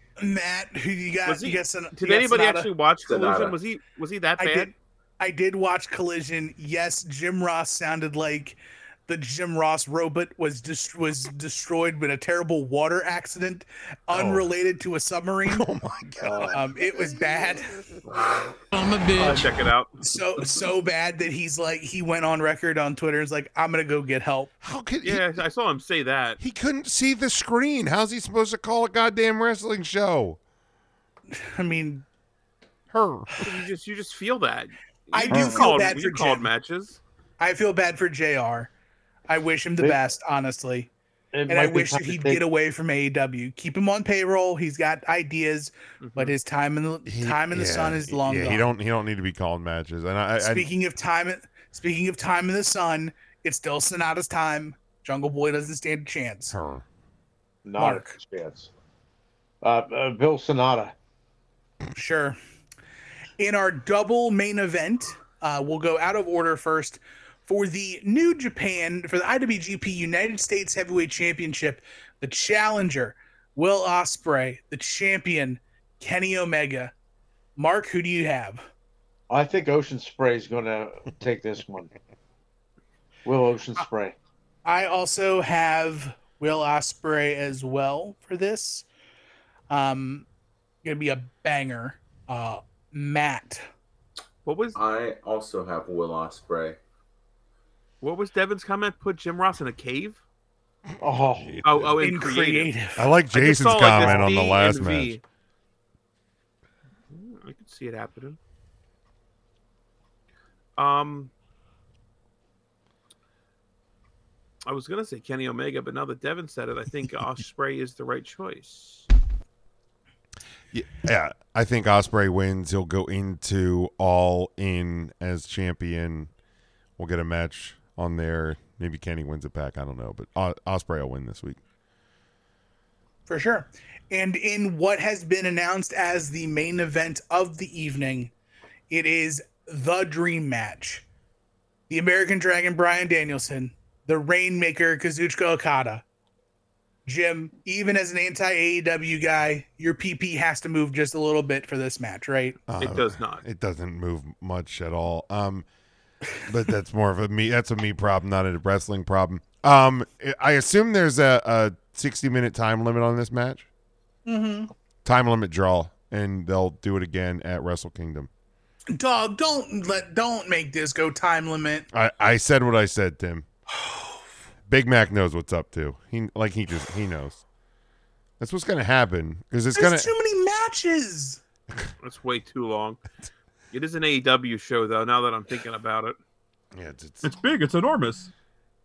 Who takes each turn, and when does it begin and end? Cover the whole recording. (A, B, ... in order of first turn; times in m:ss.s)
0:00.2-0:02.7 A
0:01.2-0:04.7 B
0:03.0-0:03.6 C
0:04.4-0:15.7 A
0:14.1-0:14.5 D
0:15.4-0:17.0 E
0:16.2-0:16.5 D
0:16.5-0:17.7 A
0:18.1-0:18.5 C
0:19.1-0:19.9 B
0:19.2-0:19.4 D
0:20.0-0:24.5 A
0:24.6-0:25.2 E
0:25.0-0:26.4 B
0:26.4-0:30.4 E
0:31.3-0:32.0 A
0:32.9-0:33.4 E
0:33.4-0:37.0 B
0:35.1-0:36.5 A
0:35.3-0:35.7 D
0:37.4-0:38.7 A
0:39.3-0:40.9 A
0:39.8-0:40.1 D
0:41.3-0:42.4 D
0:41.5-0:48.7 A
0:46.0-0:46.3 B
0:47.0-0:50.7 E
0:50.4-0:56.6 A
0:56.5-0:56.8 E
0:57.6-0:58.7 D
0:57.8-0:58.2 A
0:59.6-1:00.9 D
1:01.9-1:02.4 A
1:03.4-1:16.9 A
1:17.6-1:18.6 A
1:19.3-1:21.9 D
1:23.2-1:24.1 D
1:24.6-1:28.9 A
1:29.7-1:30.2 A
1:30.8-1:33.6 A
1:34.4-1:34.8 B
1:34.7-1:36.8 C
1:38.0-1:40.2 B
1:41.0-1:41.6 D
1:41.4-1:41.9 E
1:41.6-1:42.7 B
1:42.0-1:43.1 A
1:43.0-1:45.2 E
1:43.3-1:45.2 B
1:47.1-1:48.4 B
1:50.8-1:51.3 B
1:54.6-1:59.1 B
2:00.7-2:06.3 E
2:07.0-2:11.6 E
2:13.3-2:18.3 A
2:18.9-2:21.0 A
2:21.9-2:26.0 A
2:27.0-2:32.6 A
2:32.7-2:35.6 E
2:32.8-2:33.4 B
2:36.4-2:43.7 E
2:44.2-2:44.7 A
2:45.0-2:48.3 E
2:48.9-2:51.9 A
2:51.9-2:53.5 E
2:54.7-2:57.4 E
2:58.4-3:00.1 E
2:59.7-3:01.4 A
3:02.0-3:03.0 B
3:03.7-3:06.2 B
3:06.7-3:07.3 E
3:07.2-3:08.3 B